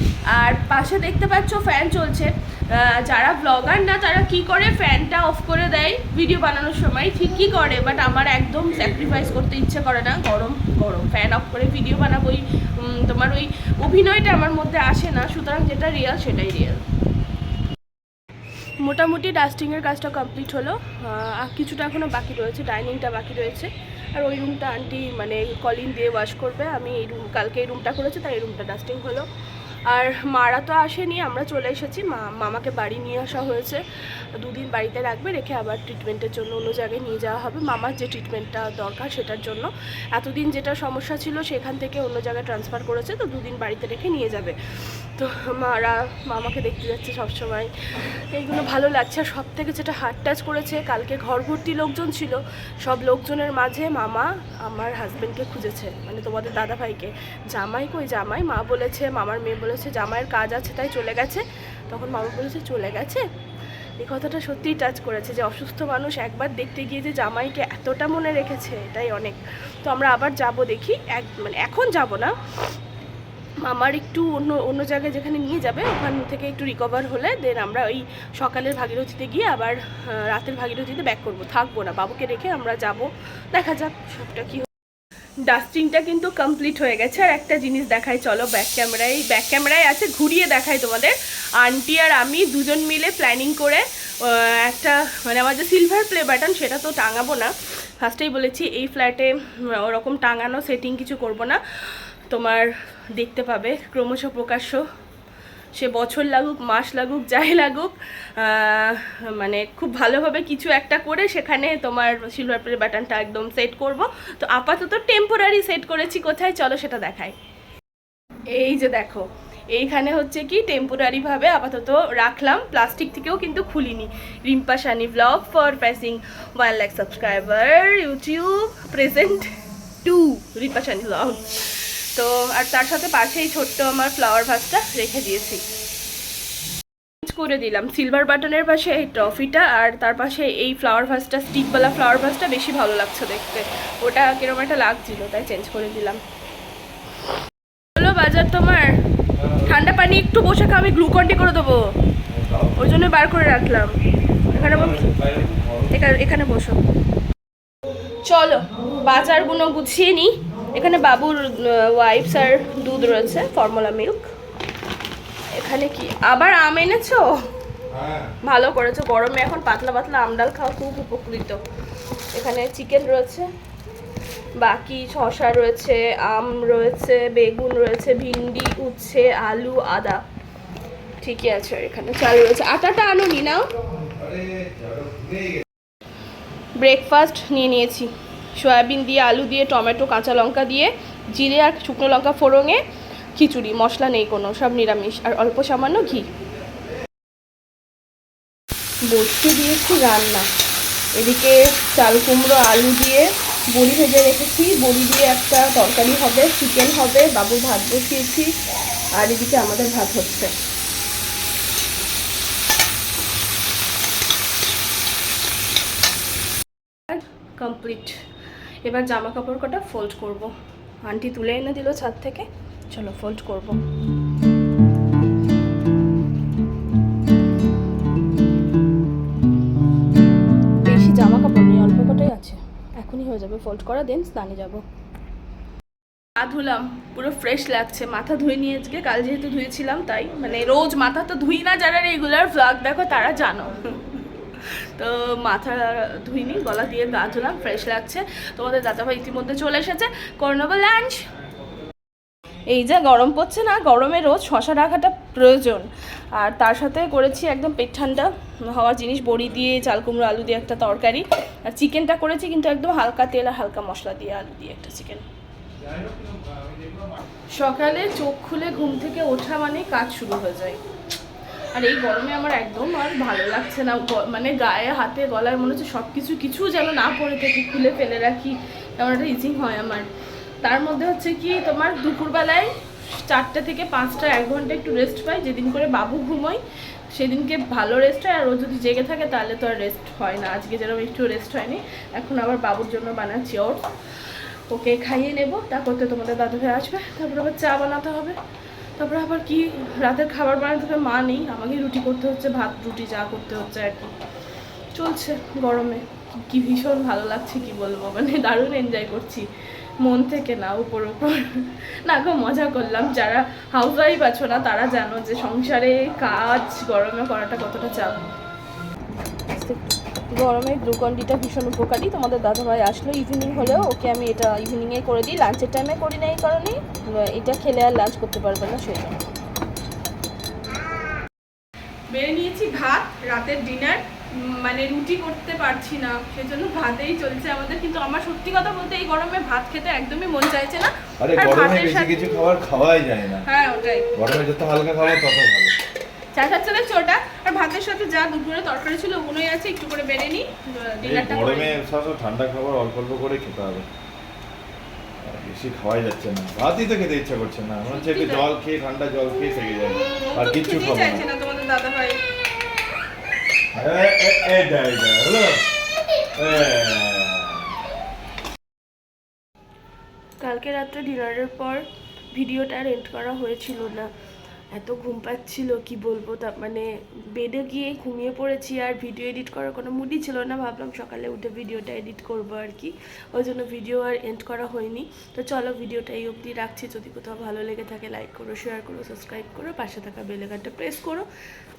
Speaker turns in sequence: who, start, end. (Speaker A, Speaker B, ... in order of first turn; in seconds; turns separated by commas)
Speaker A: 0.3-16.8, Speaker A: 18.8-29.3, Speaker A: 29.9-33.8, Speaker A: 34.4-63.2, Speaker A: 64.0-72.3, Speaker A: 73.7-84.7, Speaker A: 85.5-104.8, Speaker A: 105.8-117.4, Speaker A: 118.5-135.6, Speaker A: 137.2-146.2, Speaker A: 147.9-149.0, Speaker A: 149.6-151.8, Speaker B: 152.3-152.8, Speaker A: 152.8-153.9, Speaker A: 154.5-155.1, Speaker B: 154.5-155.9, Speaker A: 155.9-156.8, Speaker A: 158.2-164.3, Speaker A: 165.6-167.3, Speaker B: 167.9-168.3, Speaker A: 168.4-171.6, Speaker A: 172.3-173.5, Speaker A: 174.6-180.2, Speaker A: 181.2-183.7, Speaker B: 184.1-185.6, Speaker A: 186.8-192.8, Speaker A: 193.4-196.3, Speaker A: 199.1-200.5, Speaker A: 201.2-208.5, Speaker A: 209.1-210.5, Speaker A: 217.1-218.2, Speaker A: 218.8-220.5, Speaker A: 221.0-223.8, Speaker A: 230.8-234.8, Speaker A: 236.4-251.2, Speaker A: 252.7-265.2, Speaker A: 267.6-270.8, Speaker A: 271.8-280.1, Speaker A: 280.6-286.6, Speaker A: 287.1-298.4, Speaker A: 299.0-304.1, Speaker A: 305.0-309.4, Speaker A: 310.0-318.1, Speaker A: 319.5-329.2, Speaker A: 332.1-342.2, Speaker B: 341.2-343.5, Speaker A: 343.4-344.1, Speaker B: 344.1-345.8, Speaker A: 346.3-351.7, Speaker B: 351.0-353.9, Speaker B: 355.2-361.3, Speaker A: 357.9-358.4, Speaker A: 360.0-362.2, Speaker B: 363.7-365.6, Speaker B: 366.4-367.7, Speaker A: 370.4-374.1, Speaker A: 374.7-391.3